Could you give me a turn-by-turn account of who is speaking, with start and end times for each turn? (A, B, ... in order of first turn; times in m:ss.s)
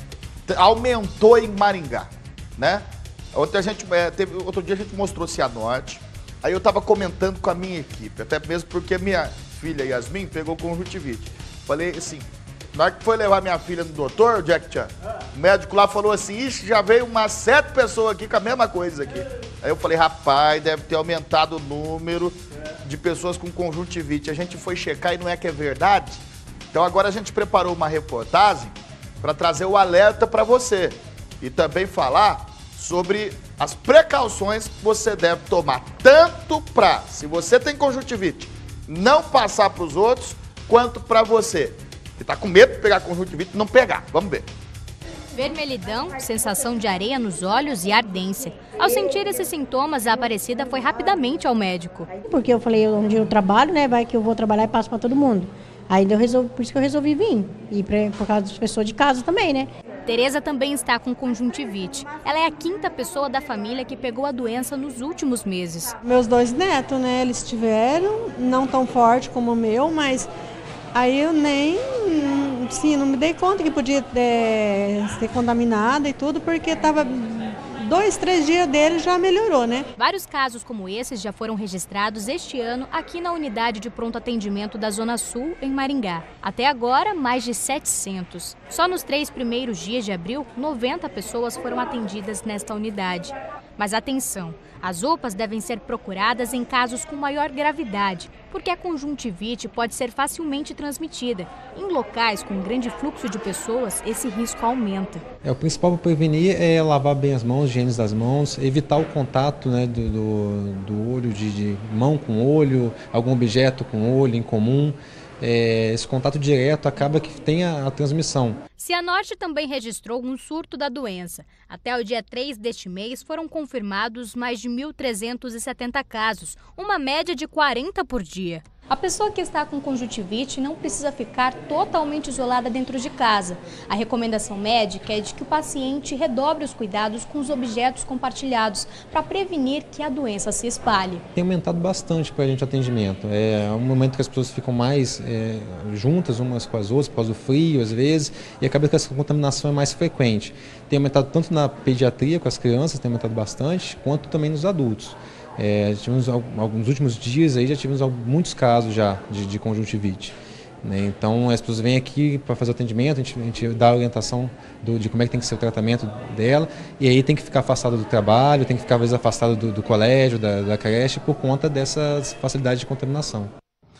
0:00.5-0:44.5 A
0:45.3-0:52.1 B
0:52.3-0:59.7 C
1:00.1-1:06.0 B
1:06.0-1:10.3 D
1:10.9-1:19.9 D
1:20.0-1:45.2 B
1:45.4-1:58.6 E
1:58.8-2:21.2 B
2:21.4-2:53.5 E